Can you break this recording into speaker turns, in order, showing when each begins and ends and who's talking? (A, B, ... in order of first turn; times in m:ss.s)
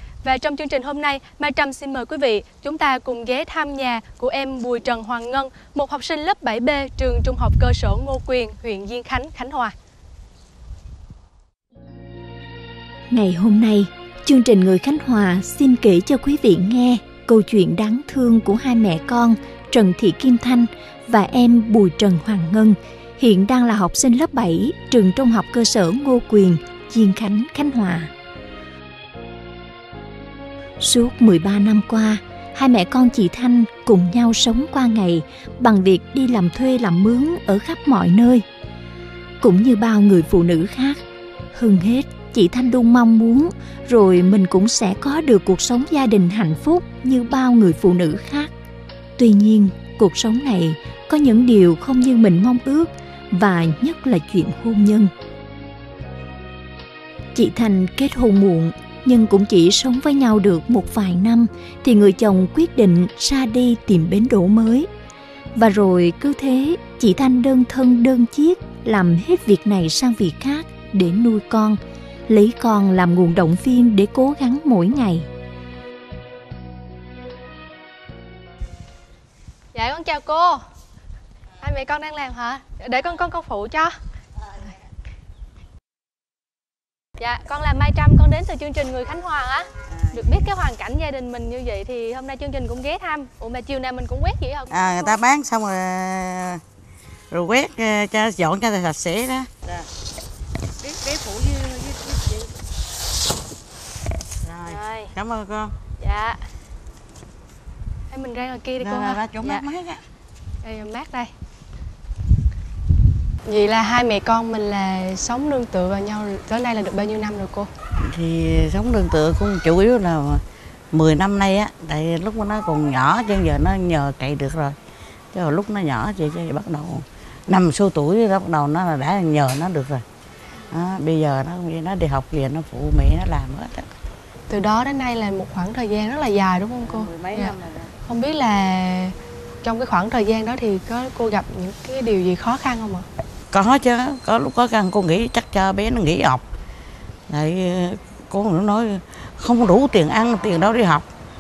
0:00.2-0:09.7 A
0:13.1-0:28.1 B
0:30.8-0:38.4 B
0:39.4-0:41.0 B
0:41.5-0:48.5 B
0:49.2-0:55.1 B
0:57.3-1:04.9 B
1:05.6-1:11.8 B
1:12.3-1:15.3 B
1:19.7-1:20.6 A
1:21.6-1:23.9 A
1:27.2-1:35.2 A
1:34.7-1:36.6 C
1:37.3-1:39.7 C
1:40.8-1:42.4 C
1:44.4-1:45.7 C
1:44.7-1:45.1 A
1:46.0-1:46.4 A
1:48.1-1:49.6 A
1:48.8-1:50.0 C
1:50.6-1:51.3 A
1:53.5-1:57.7 A
1:58.0-2:04.8 C
2:05.3-2:10.0 C
2:10.7-2:13.9 C
2:14.5-2:23.1 A
2:16.9-2:17.9 C
2:23.5-2:26.4 C
2:27.3-2:31.1 C